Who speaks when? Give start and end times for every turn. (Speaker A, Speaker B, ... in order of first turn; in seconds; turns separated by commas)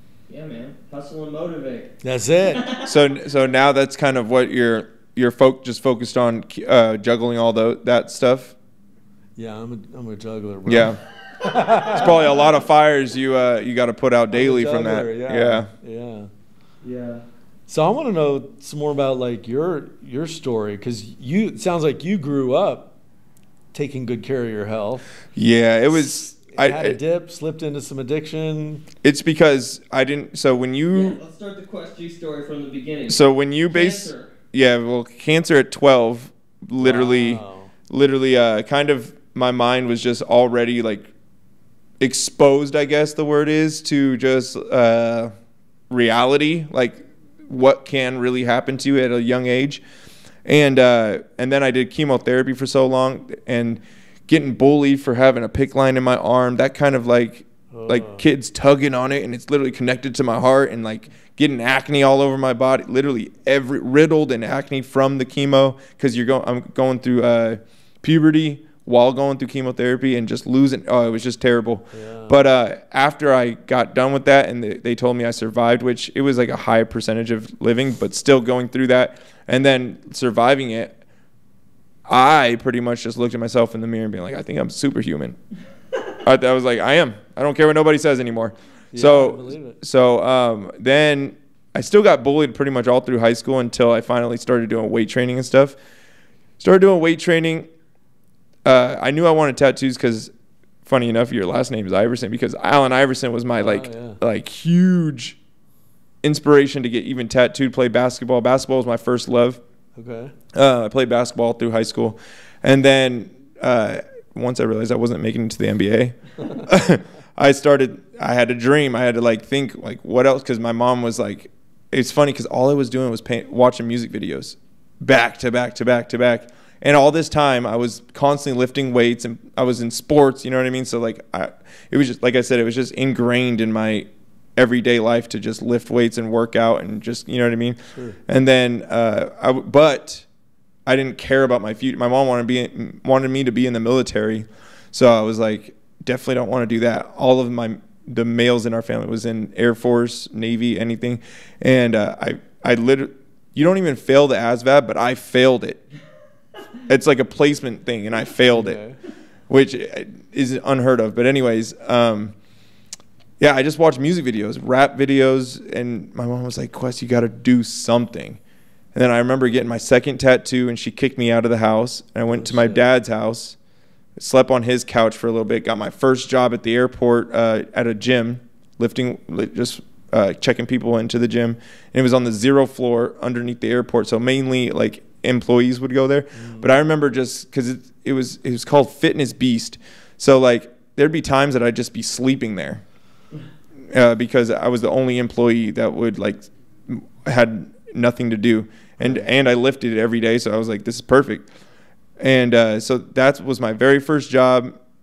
Speaker A: 0.3-1.9, Speaker B: 2.0-2.7, Speaker A: 2.5-2.9, Speaker C: 2.8-8.5, Speaker B: 9.4-12.2, Speaker C: 10.7-11.0, Speaker C: 11.9-15.7, Speaker B: 14.3-16.3, Speaker A: 16.8-17.2, Speaker B: 17.7-22.9, Speaker B: 23.7-25.1, Speaker C: 25.4-27.0, Speaker B: 25.9-28.9, Speaker C: 29.0-31.2, Speaker A: 30.9-34.3, Speaker C: 33.1-41.1, Speaker B: 36.8-37.7, Speaker C: 42.0-45.3, Speaker C: 45.9-49.8, Speaker C: 50.4-81.0, Speaker B: 57.7-58.3, Speaker B: 71.9-72.4, Speaker C: 82.1-85.4, Speaker C: 86.2-95.8, Speaker B: 88.9-89.8, Speaker C: 96.6-97.7, Speaker C: 98.6-100.3, Speaker C: 100.8-105.4, Speaker B: 103.6-104.2, Speaker C: 106.2-109.6, Speaker B: 110.0-110.3, Speaker C: 110.5-140.2, Speaker C: 140.8-155.8, Speaker C: 156.9-158.8, Speaker B: 158.5-159.0, Speaker C: 159.5-162.3, Speaker C: 163.4-168.4, Speaker C: 168.9-173.6, Speaker B: 172.3-172.8, Speaker C: 174.2-192.8, Speaker B: 186.3-186.8, Speaker C: 193.9-201.5, Speaker B: 199.0-199.3, Speaker C: 202.2-204.7